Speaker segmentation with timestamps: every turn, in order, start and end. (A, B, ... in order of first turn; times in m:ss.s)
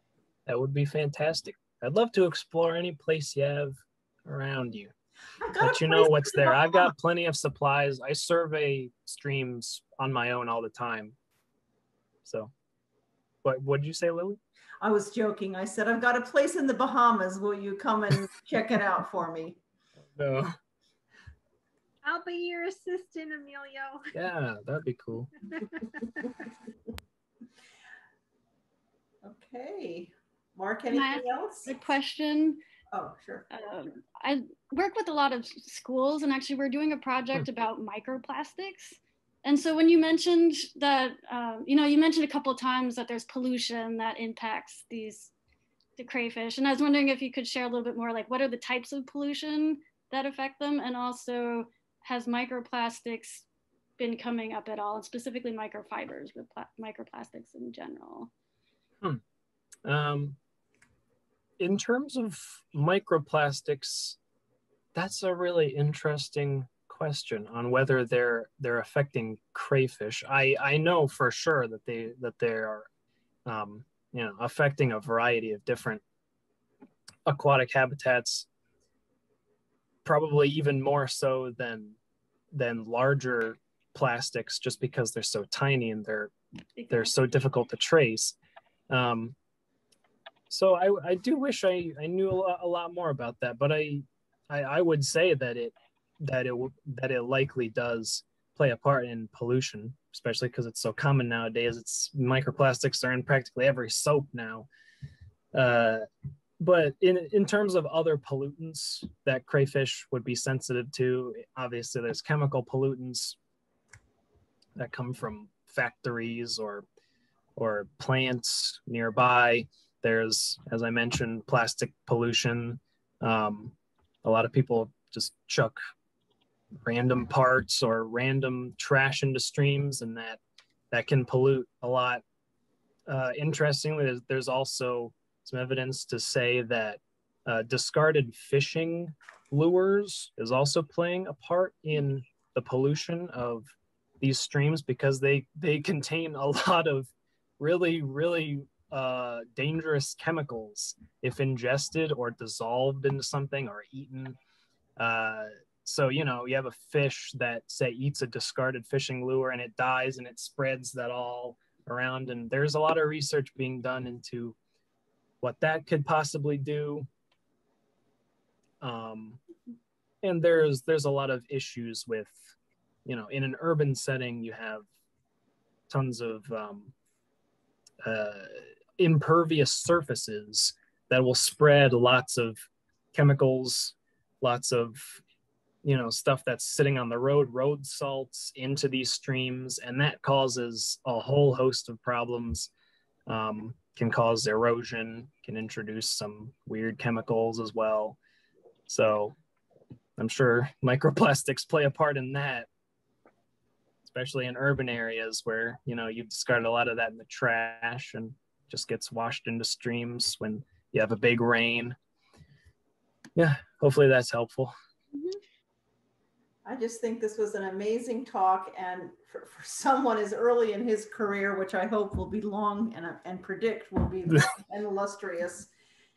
0:00.5-0:04.9 A
0:05.4-0:06.9 B
0:05.6-0:11.2 A
0:12.2-0:12.5 A
0:13.4-0:14.4 A
0:14.8-0:19.6 B
0:20.2-0:20.5 A
0:22.0-0:24.0 C
0:24.1-0:25.3 A
0:25.6-0:26.3 C
0:29.2-0:31.8 B
0:30.9-0:32.6 D
0:32.9-0:33.5 B
0:33.5-0:45.3 D
0:46.0-0:53.5 D
0:54.0-0:58.3 D
0:59.8-1:00.4 A
1:01.6-1:04.2 A
1:05.0-1:12.9 A
1:13.5-1:16.0 A
1:17.3-1:18.5 A
1:20.0-1:22.0 A
1:22.5-1:26.3 A
1:26.8-1:27.1 D
1:26.9-1:28.4 A
1:28.9-1:29.4 A
1:30.5-1:44.7 A
1:45.5-1:46.0 A
1:46.6-1:53.4 A
1:54.8-1:56.8 A
1:57.6-2:05.8 A
2:06.8-2:10.4 A
2:10.9-2:12.2 A
2:13.1-2:34.4 A
2:35.0-2:44.6 A
2:45.4-2:47.1 A
2:48.8-2:49.4 A
2:50.2-2:52.5 A
2:53.1-2:54.9 A
2:55.9-2:56.9 A
2:58.0-3:05.2 A
3:05.8-3:12.7 A
3:13.3-3:18.2 A
3:18.9-3:19.4 A
3:20.2-3:22.7 A
3:24.0-3:32.0 A
3:33.4-3:34.7 A
3:36.6-3:45.7 B